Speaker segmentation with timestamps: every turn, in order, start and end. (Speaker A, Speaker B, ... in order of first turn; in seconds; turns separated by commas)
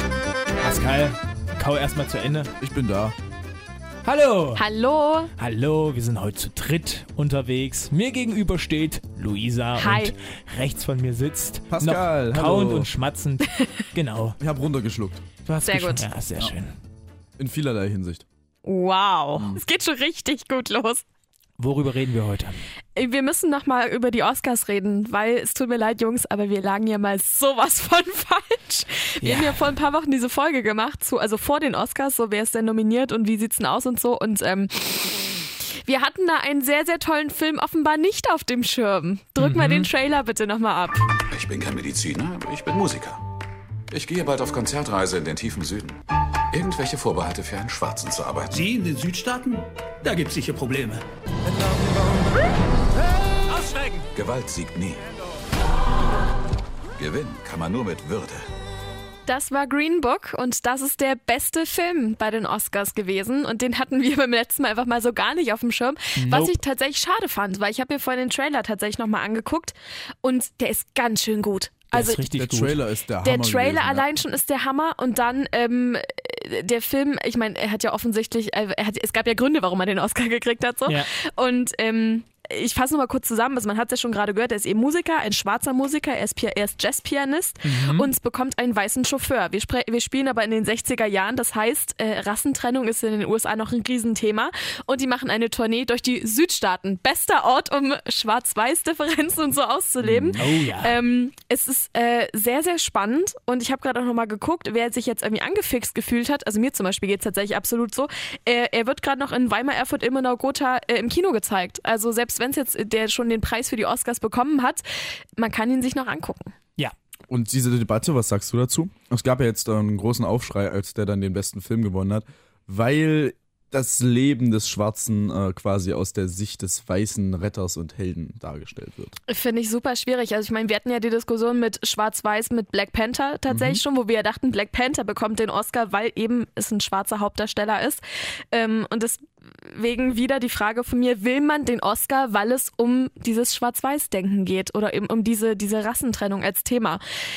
Speaker A: 0.6-2.5, Speaker B: 2.6-3.1, Speaker A: 4.0-4.6, Speaker C: 4.6-5.3, Speaker A: 5.4-14.4, Speaker C: 9.8-10.1, Speaker B: 11.7-12.9, Speaker C: 13.5-13.8, Speaker B: 14.4-15.2, Speaker A: 15.4-16.7, Speaker C: 15.6-16.1, Speaker B: 17.4-18.2, Speaker C: 18.6-21.0, Speaker B: 19.4-19.6, Speaker A: 21.6-22.6, Speaker C: 22.9-41.1, Speaker A: 29.2-29.7, Speaker A: 39.4-39.9, Speaker D: 41.3-43.2, Speaker D: 43.9-48.7, Speaker E: 48.5-51.0, Speaker D: 54.1-55.0, Speaker D: 57.0-58.4, Speaker C: 59.2-72.2, Speaker A: 66.2-66.6, Speaker A: 71.9-72.8, Speaker B: 72.3-74.0, Speaker C: 73.2-116.5, Speaker A: 87.6-88.1, Speaker B: 100.0-100.4, Speaker A: 100.4-101.0, Speaker B: 117.3-129.2, Speaker C: 129.3-147.0, Speaker B: 133.5-133.8